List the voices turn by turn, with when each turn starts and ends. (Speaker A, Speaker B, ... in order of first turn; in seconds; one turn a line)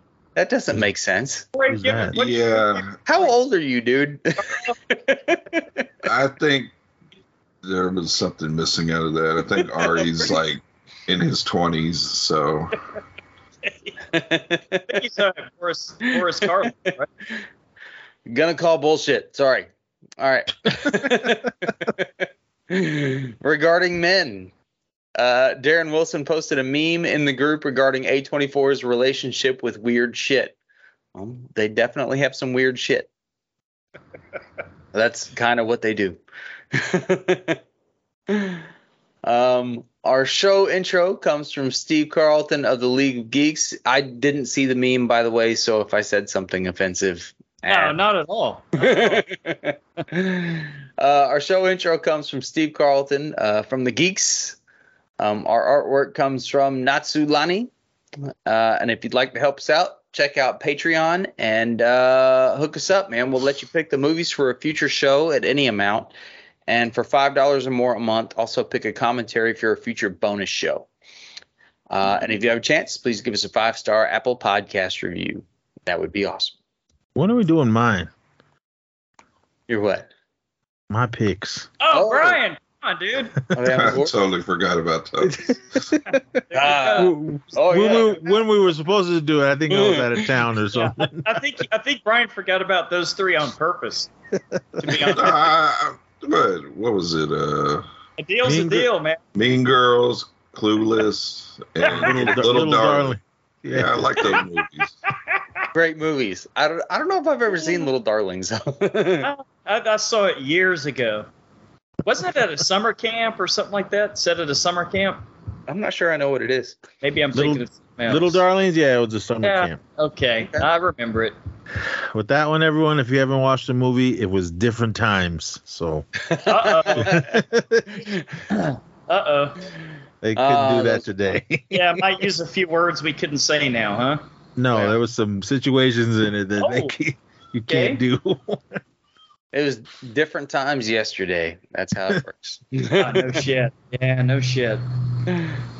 Speaker A: 0.4-1.4
Speaker B: 1.6-3.3
Speaker C: 1.7-2.2
Speaker D: 2.1-3.0
Speaker A: 3.1-5.8
Speaker B: 4.5-4.7
Speaker D: 6.0-6.7
Speaker D: 7.6-12.8
Speaker A: 9.8-10.2
Speaker B: 13.6-14.0
Speaker A: 14.1-14.9
Speaker B: 14.9-17.1
Speaker A: 18.3-22.1
Speaker A: 22.7-24.5
Speaker A: 25.2-30.6
Speaker A: 31.1-33.1
Speaker A: 34.9-36.2
Speaker A: 36.7-37.6
Speaker A: 38.3-38.6
Speaker A: 39.2-48.0
Speaker B: 47.7-49.2
Speaker A: 48.8-54.6
Speaker A: 55.2-57.7
Speaker A: 58.5-66.1
Speaker A: 66.7-70.9
Speaker A: 71.9-76.5
Speaker C: 77.2-78.1
Speaker A: 79.7-80.1
Speaker C: 80.9-81.7
Speaker B: 81.8-83.4
Speaker A: 81.9-82.4
Speaker A: 83.5-84.1
Speaker D: 83.7-85.5
Speaker C: 85.2-86.2
Speaker B: 86.1-87.2
Speaker A: 86.5-88.2
Speaker C: 87.0-91.4
Speaker A: 89.7-90.3
Speaker B: 90.7-94.1
Speaker B: 94.8-95.3
Speaker D: 95.0-97.8
Speaker B: 98.2-99.2
Speaker C: 98.4-98.9
Speaker D: 99.4-103.2
Speaker B: 101.8-102.1
Speaker C: 102.0-104.4
Speaker D: 103.7-104.9
Speaker A: 105.7-109.3
Speaker B: 107.6-107.9
Speaker B: 109.2-111.3
Speaker B: 112.0-115.2
Speaker A: 115.7-116.8
Speaker B: 117.0-118.4
Speaker C: 117.3-119.8
Speaker B: 119.4-121.3
Speaker C: 121.8-126.1
Speaker A: 126.3-127.3
Speaker B: 126.4-127.2
Speaker C: 127.0-128.0
Speaker B: 128.5-129.7
Speaker C: 130.2-132.1
Speaker A: 130.3-131.1
Speaker B: 131.7-134.2
Speaker C: 134.6-138.8
Speaker B: 136.6-136.9
Speaker B: 137.7-138.0
Speaker A: 139.5-143.4
Speaker B: 143.0-144.8